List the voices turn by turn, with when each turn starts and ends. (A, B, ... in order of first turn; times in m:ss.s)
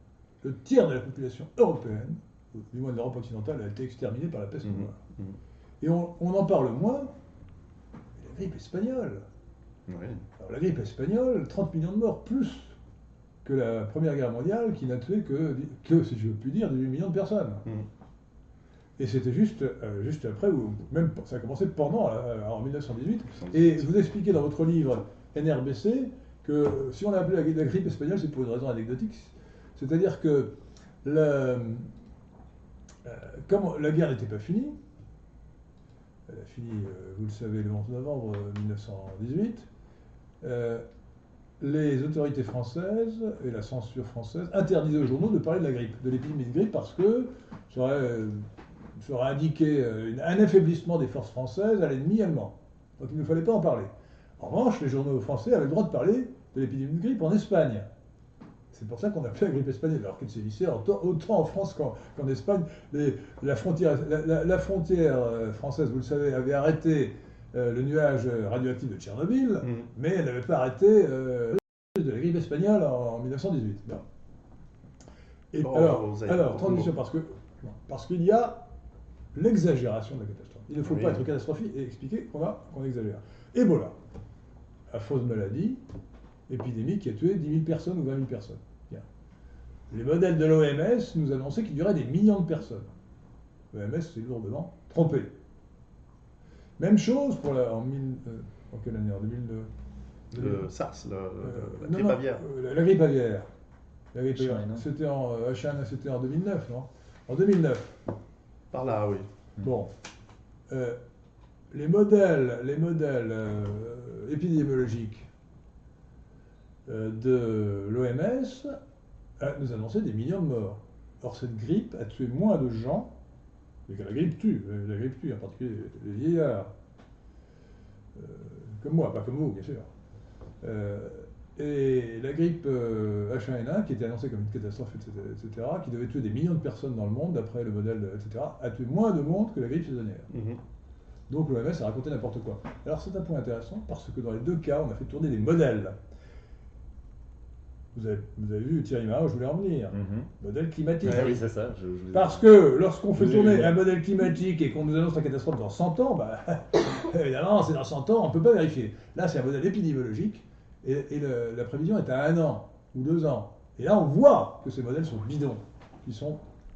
0:00.4-0:05.0 A
0:04.6-0:05.4 B
0:05.8-0:07.1 A
0:08.2-0:09.2 A
0:09.9-0:10.2 B
0:10.4-0:12.7 A
0:13.4-0:17.6 A
0:19.0-0:31.9 A
0:23.4-0:23.8 B
0:33.0-0:34.8 A
0:36.3-0:39.7 A
0:40.4-0:40.8 A
0:41.6-0:57.9 A
0:58.7-1:14.0 A
1:09.6-1:09.9 B
1:15.5-1:18.7 A
1:15.6-1:16.9 B
1:19.3-1:23.9 A
1:20.8-1:21.2 B
1:24.9-1:25.8 A
1:26.5-1:29.0 A
1:29.9-1:32.9 A
1:33.7-1:35.3 A
1:36.8-1:39.7 A
1:40.3-1:40.7 A
1:40.3-1:42.4 B
1:41.4-1:43.5 A
1:44.1-1:48.0 A
1:44.4-1:44.8 C
1:48.7-1:49.3 B
1:49.6-1:49.9 A
1:50.7-1:51.0 A
1:51.7-1:55.3 A
1:56.8-1:58.7 A
1:59.4-2:03.1 A
2:03.9-2:06.7 A
2:08.1-2:09.9 A
2:10.6-2:20.3 A
2:20.3-2:20.6 B
2:21.3-2:26.0 A
2:27.9-2:31.4 A
2:29.9-2:30.3 C
2:31.0-2:32.4 C
2:32.1-2:46.4 A
2:33.2-2:33.7 C